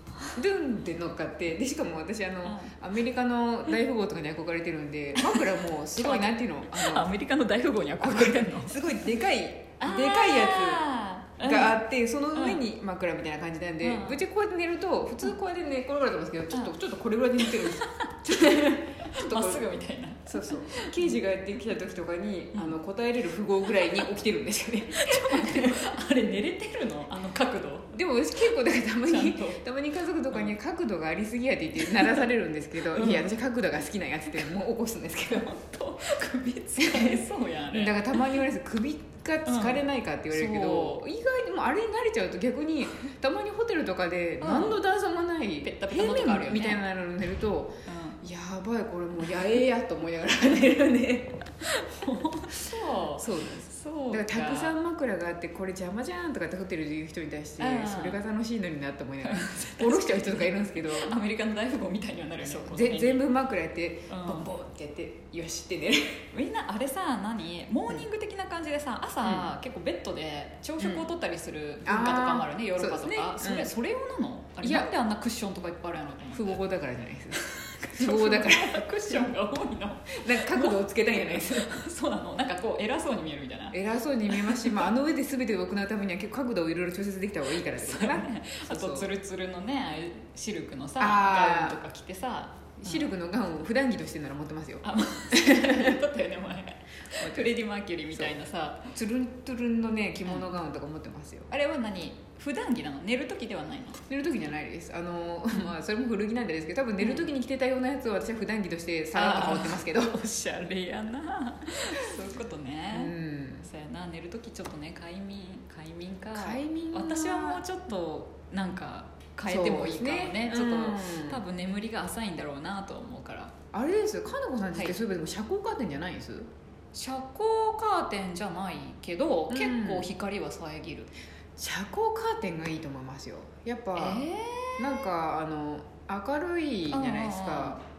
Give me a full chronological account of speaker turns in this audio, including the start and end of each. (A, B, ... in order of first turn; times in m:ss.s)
0:00.3-0:07.1 A
0:02.4-0:02.7 B
0:05.1-0:08.8 B
0:08.0-0:10.9 A
0:09.8-0:11.8 B
0:11.4-0:19.6 A
0:12.3-0:12.6 B
0:13.8-0:14.2 B
0:17.4-0:21.2 B
0:20.3-0:25.8 A
0:22.5-0:22.8 B
0:24.9-0:27.9 B
0:27.9-0:35.5 A
0:29.1-0:29.6 B
0:31.8-0:32.2 B
0:32.9-0:33.3 B
0:35.3-0:38.4 B
0:36.8-0:51.4 A
0:39.4-0:41.0 B
0:44.4-0:44.8 B
0:45.6-0:46.8 B
0:47.9-0:48.2 B
0:51.6-0:54.8 B
0:53.0-1:01.1 A
0:57.6-0:58.2 B
0:59.2-1:03.2 B
1:02.4-1:06.2 A
1:04.1-1:04.5 B
1:06.3-1:16.5 B
1:09.2-1:09.5 A
1:10.8-1:11.1 A
1:11.8-1:13.7 A
1:14.6-1:14.9 A
1:16.3-1:17.4 A
1:17.4-1:24.9 B
1:17.9-1:19.3 A
1:20.1-1:21.8 A
1:23.7-1:29.1 A
1:27.5-1:33.1 B
1:31.0-1:31.8 A
1:32.8-1:36.0 A
1:34.8-1:38.9 B
1:37.2-1:37.5 A
1:38.9-1:41.5 A
1:41.5-1:44.0 B
1:44.1-1:50.2 A
1:47.0-1:47.3 B
1:49.1-2:03.5 B
1:52.9-1:53.6 A
1:56.3-1:57.6 A
1:59.4-2:01.4 A
2:03.7-2:06.5 A
2:06.9-2:11.1 B
2:09.5-2:10.1 A
2:11.6-2:14.2 A
2:14.0-2:15.1 B
2:14.8-2:17.8 A
2:16.9-2:17.8 B